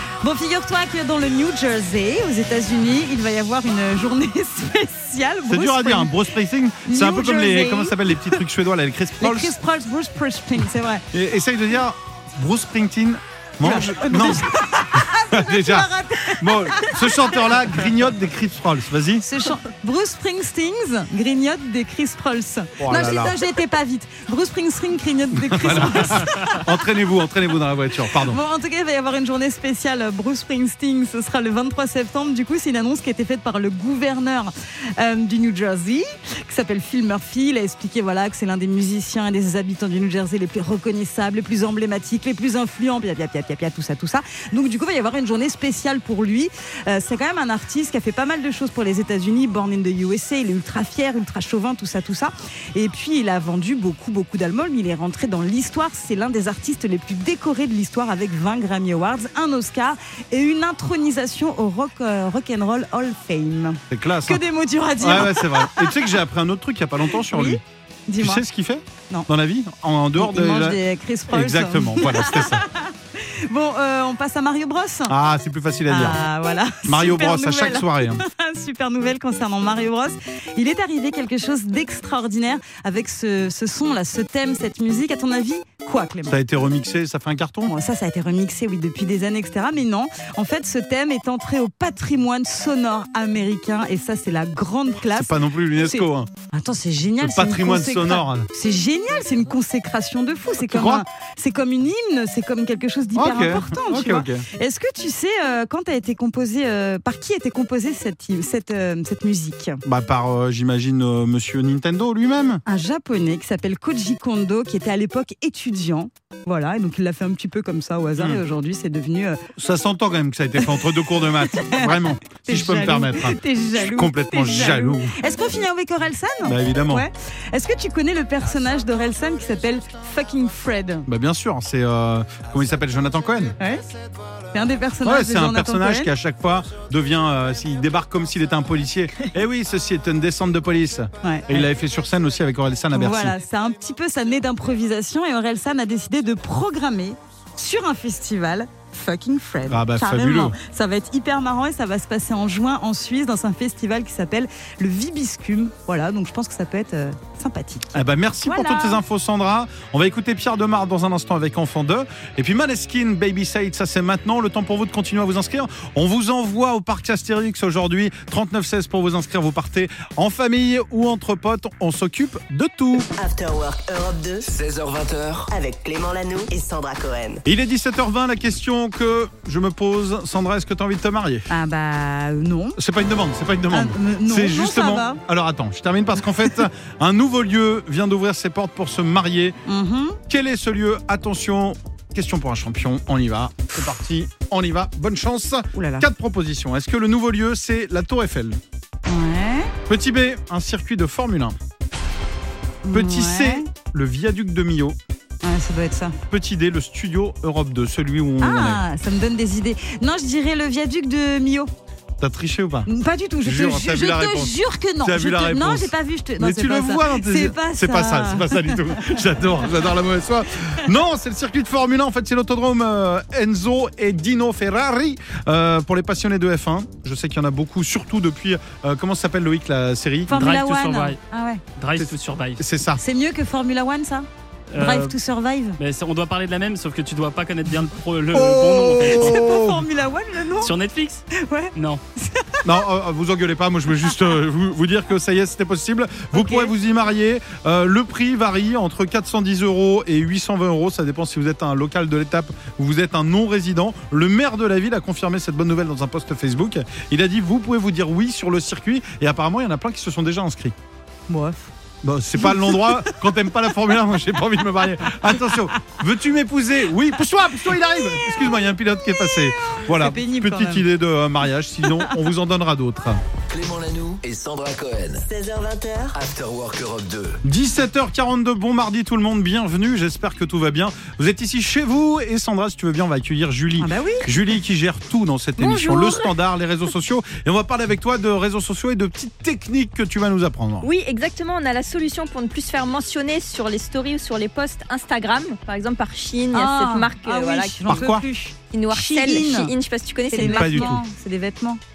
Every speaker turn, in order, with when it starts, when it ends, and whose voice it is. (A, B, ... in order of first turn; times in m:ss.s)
0:00.2-0:06.2 A
0:05.5-0:09.6 B
0:06.8-0:08.4 A
0:09.2-0:11.0 A
0:11.1-0:19.2 B
0:13.6-0:17.6 A
0:19.2-0:26.7 A
0:22.8-0:23.4 B
0:25.3-0:28.4 B
0:28.1-1:06.2 A
1:03.9-1:04.4 B
1:05.0-1:07.6 B
1:07.1-1:08.4 A
1:08.2-1:12.6 B
1:10.2-1:15.1 A
1:15.1-1:16.2 B
1:15.9-1:26.4 A
1:16.8-1:18.2 B
1:26.3-1:27.7 B
1:27.6-1:49.8 A
1:35.1-1:36.3 B
1:37.2-1:38.5 B
1:40.7-1:41.0 B
1:43.1-1:44.5 B
1:49.8-1:52.6 B
1:52.6-1:59.4 A
1:58.2-1:58.4 B
1:59.6-2:05.2 B
2:01.4-2:11.1 A
2:06.4-2:07.1 B
2:11.1-2:13.6 B
2:13.6-2:13.9 A
2:14.5-2:16.1 A
2:15.0-2:23.4 B
2:21.2-2:21.7 A
2:22.9-2:39.0 A
2:29.6-2:30.6 B
2:37.9-2:53.1 B
2:53.2-2:54.5 C
2:54.4-2:55.5 D
2:55.5-2:57.4 C
2:57.5-3:01.5 B
3:01.5-3:02.8 A
3:02.8-3:09.6 B
3:03.7-3:05.2 A
3:09.6-3:10.2 A
3:10.3-3:18.6 B
3:15.8-3:16.1 A
3:19.1-3:19.7 A
3:19.9-3:21.6 B
3:22.8-3:23.7 A
3:22.9-3:25.0 B
3:25.4-3:26.2 A
3:26.3-3:28.8 B
3:28.4-3:31.7 A
3:32.2-3:32.9 B
3:32.9-3:39.2 A
3:33.4-3:50.4 B
3:50.3-3:51.6 A
3:50.4-3:51.2 E
3:51.8-3:52.6 E
3:51.9-3:53.0 B
3:53.0-3:55.8 A
3:54.7-3:55.1 E
3:55.8-3:59.1 E
3:58.3-3:59.9 B
3:59.0-4:00.8 A
4:00.6-4:01.2 E
4:01.3-4:02.8 A
4:02.6-4:20.8 B
4:06.3-4:06.7 A
4:21.3-4:21.7 A
4:22.0-4:33.2 B
4:22.4-4:23.2 A
4:27.9-4:30.9 A
4:33.5-4:35.2 D
4:35.2-4:36.2 C
4:36.1-4:37.4 D
4:37.4-4:50.9 B
4:43.8-4:44.3 A
4:45.6-4:46.3 F
4:50.8-4:58.0 F
4:56.5-4:59.7 A
4:57.9-4:58.2 B
4:58.7-5:01.0 F
5:00.3-5:01.8 A
5:00.4-5:01.0 B